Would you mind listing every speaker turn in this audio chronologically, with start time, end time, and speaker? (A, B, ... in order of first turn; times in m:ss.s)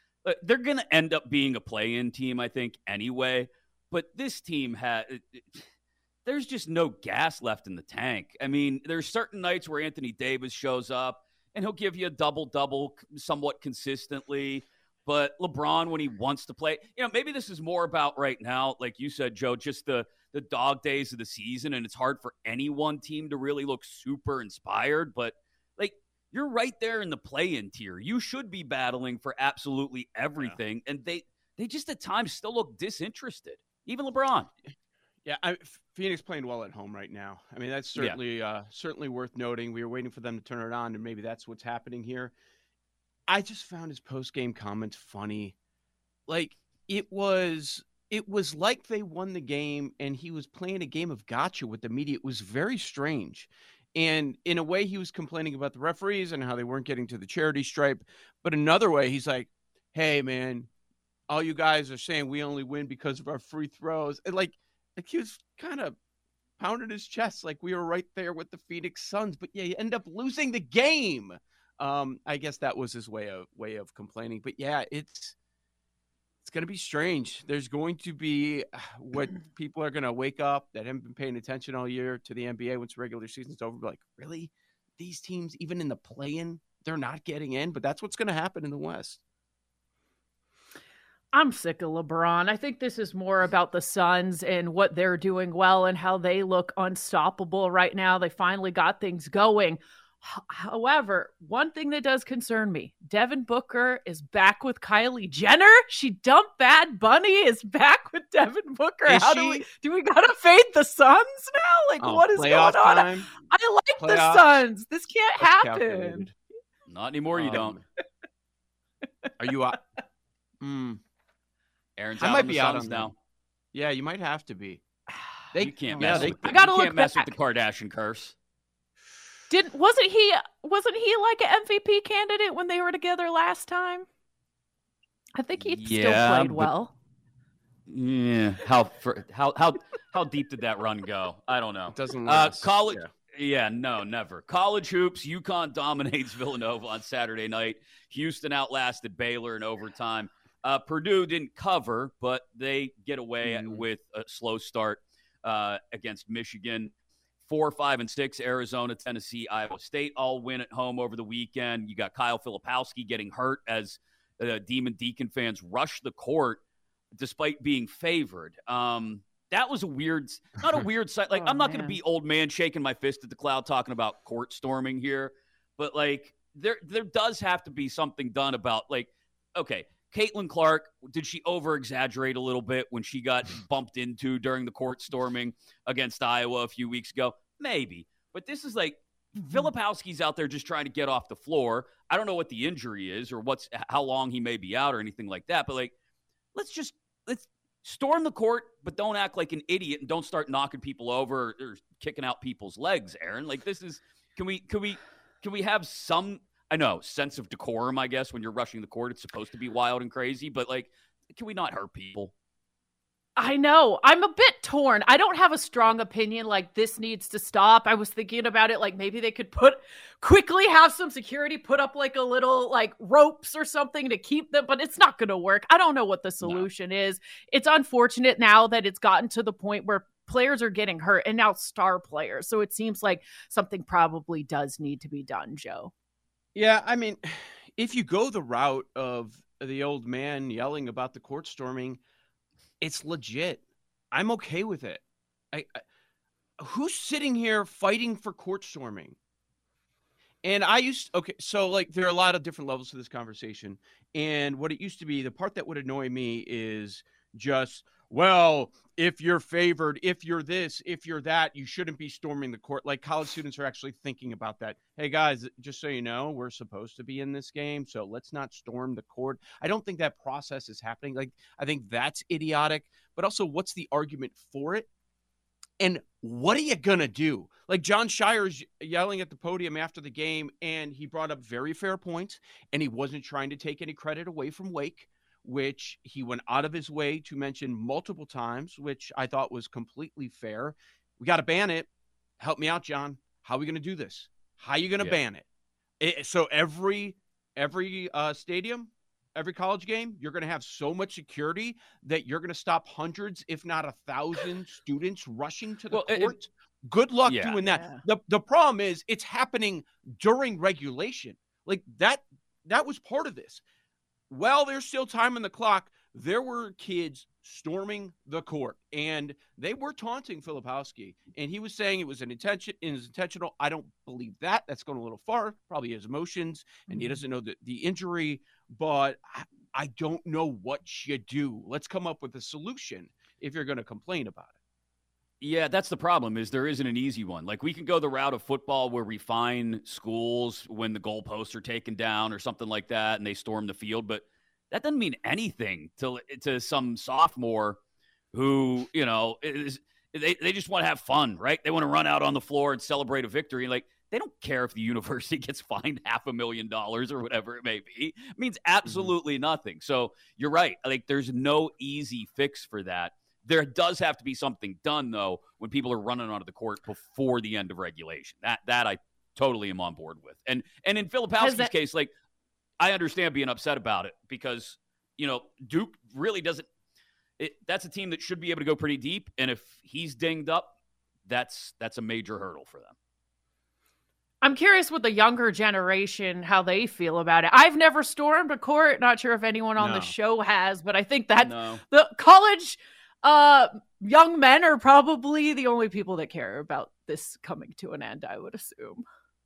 0:00.2-0:05.7 A
0:06.2-0:34.5 A
0:35.2-0:42.3 B
0:43.3-0:45.5 B
0:46.3-1:00.7 B
1:01.3-1:06.0 B
1:06.6-1:15.3 B
1:16.4-1:29.2 B
1:31.3-1:56.3 C
1:49.1-1:49.6 B
1:52.0-1:53.3 B
1:54.0-1:54.6 B
1:55.4-1:56.3 B
1:56.9-1:57.8 A
1:57.3-1:57.8 B
1:59.4-1:59.8 B
2:00.6-2:01.0 B
2:02.0-2:03.1 A
2:02.2-2:03.1 B
2:03.7-2:04.8 B
2:05.5-2:06.6 B
2:05.6-2:08.3 A
2:06.0-2:07.3 C
2:09.5-2:14.1 C
2:15.4-2:16.9 C
2:15.6-2:16.7 A
2:17.9-2:46.6 A
2:21.9-2:23.1 B
2:33.4-2:33.8 B
2:47.1-3:15.9 A
2:51.3-2:52.0 C
3:16.5-3:32.3 A
3:33.4-3:55.9 C
3:46.4-3:46.7 A
3:56.5-4:02.0 B
4:02.8-4:05.8 B
4:06.6-4:09.2 B
4:10.4-4:34.9 B
4:35.8-4:55.4 B
4:56.0-5:13.6 B
5:05.9-5:06.4 A
5:07.2-5:07.6 A
5:07.6-5:08.0 C
5:14.3-5:34.5 B
5:26.9-5:27.1 C
5:35.4-5:47.8 A
5:48.3-6:12.1 A
5:58.8-5:59.1 B
6:11.4-6:11.7 C
6:12.8-6:16.7 A
6:17.4-6:20.7 A
6:21.3-6:22.9 A
6:24.4-6:39.0 C
6:29.8-6:30.1 B
6:31.4-6:31.8 A